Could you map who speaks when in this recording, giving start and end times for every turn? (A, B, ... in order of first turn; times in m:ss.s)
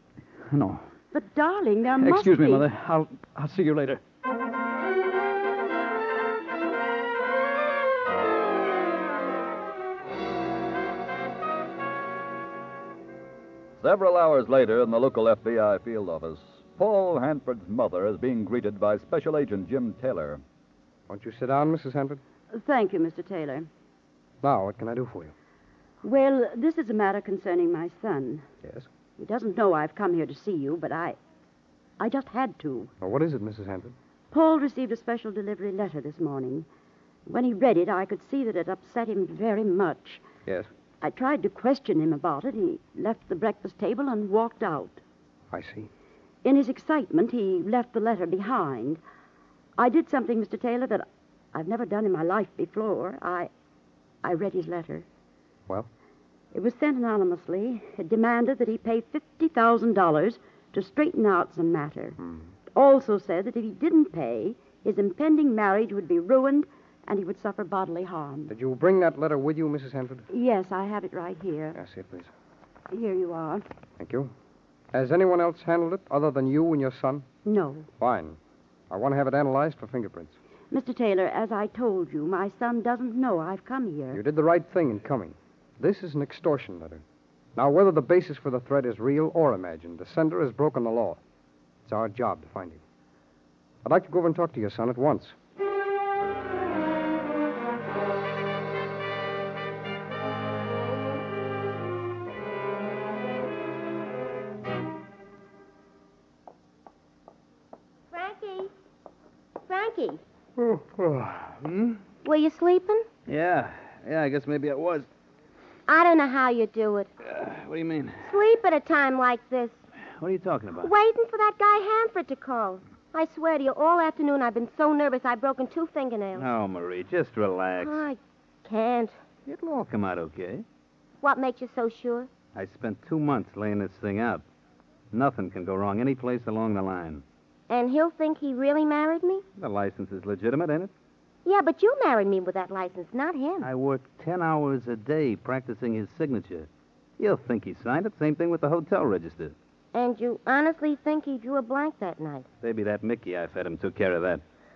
0:00.5-0:00.9 A
0:01.1-0:02.7 B
0:02.0-0:04.0 A
0:13.8-0:20.4 C
0:21.1-0:22.2 D
0:22.5-0:23.7 B
0:24.4-0:25.3 D
0:26.0-0:28.4 B
0:29.2-0:31.2 B
0:32.0-0:32.9 B
0:33.0-0:33.9 D
0:34.3-0:36.7 B
0:37.2-0:40.2 B
0:41.0-0:45.0 B
0:45.5-0:45.9 D
0:46.4-0:49.0 B
0:49.8-0:53.5 B
0:54.2-0:55.0 B
0:56.5-1:02.2 B
1:02.2-1:02.5 D
1:02.7-1:08.5 B
1:08.5-1:10.2 D
1:10.3-1:11.8 B
1:11.7-1:12.3 D
1:12.9-1:13.6 B
1:14.0-1:14.3 D
1:14.9-1:17.2 D
1:17.4-1:17.9 B
1:18.0-1:18.4 D
1:18.9-1:20.4 D
1:20.7-1:24.2 B
1:24.1-1:27.0 D
1:27.6-1:31.2 D
1:31.8-1:32.8 D
1:33.8-1:35.4 D
1:48.1-1:48.7 E
1:49.6-1:50.2 E
1:51.1-1:52.0 F
1:52.2-1:53.0 E
1:53.3-1:55.1 F
1:55.9-1:57.1 E
1:57.2-1:58.2 F
1:58.2-1:59.8 E
2:00.2-2:00.9 F
2:00.8-2:06.5 E
2:06.3-2:08.0 F
2:07.8-2:09.2 E
2:09.5-2:10.6 F
2:11.2-2:12.3 E
2:12.5-2:14.4 F
2:15.1-2:17.2 F
2:17.7-2:19.4 E
2:19.6-2:20.9 F
2:21.4-2:23.7 E
2:23.6-2:29.5 F
2:29.9-2:32.4 E
2:32.6-2:34.4 F